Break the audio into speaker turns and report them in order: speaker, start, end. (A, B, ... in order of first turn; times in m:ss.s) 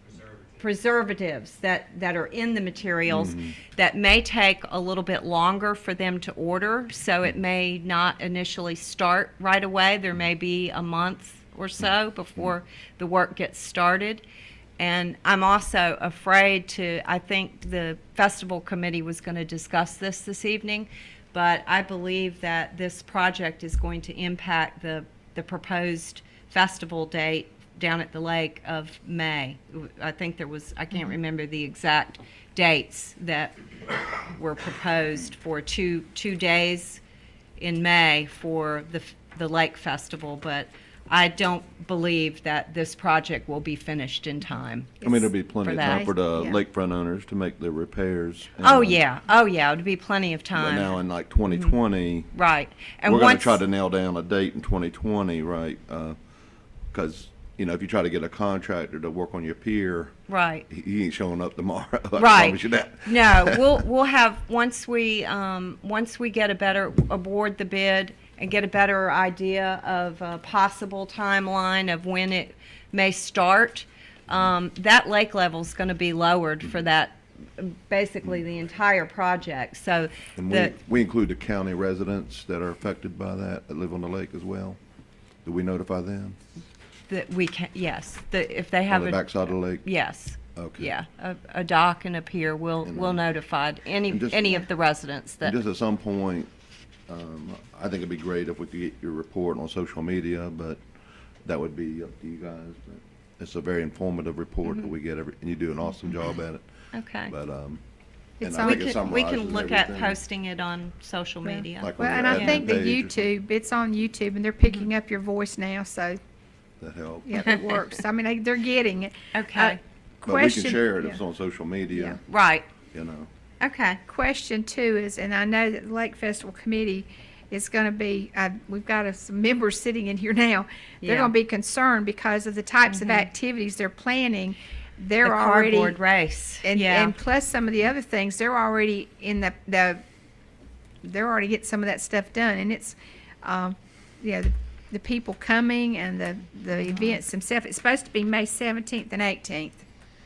0:00.6-0:14.2 A
0:03.1-0:03.5 B
0:14.8-0:33.5 A
0:34.2-0:37.0 A
0:37.6-0:45.1 A
0:45.0-0:45.3 C
0:45.0-0:49.0 B
0:45.6-0:46.1 A
0:45.8-0:46.6 C
0:48.6-0:51.7 A
0:50.5-0:52.3 B
0:52.3-0:53.6 A
0:53.0-0:56.2 B
0:56.9-1:00.2 B
1:00.3-1:00.6 A
1:00.7-1:03.8 B
1:02.2-1:20.7 A
1:20.4-1:24.8 B
1:25.4-1:26.4 B
1:27.1-1:35.5 A
1:28.9-1:29.8 B
1:30.6-1:30.9 B
1:32.8-1:33.2 B
1:34.1-1:34.6 B
1:35.4-1:36.5 B
1:37.1-1:40.8 B
1:41.4-1:46.6 B
1:44.6-1:44.9 A
1:46.9-1:47.3 A
1:47.2-1:47.8 B
1:48.4-1:48.9 C
1:48.4-1:50.2 B
1:48.6-1:52.7 A
1:51.4-1:56.2 C
1:51.8-1:53.2 B
1:56.8-1:57.4 B
1:57.2-2:01.2 C
1:59.3-1:59.8 A
2:00.2-2:02.2 B
2:01.9-2:02.2 C
2:02.3-2:02.7 A
2:02.9-2:03.3 B
2:03.6-2:04.0 A
2:04.1-2:16.0 C
2:11.0-2:11.3 A
2:12.9-2:13.3 A
2:15.2-2:17.1 A
2:16.6-2:20.0 C
2:21.0-2:29.8 C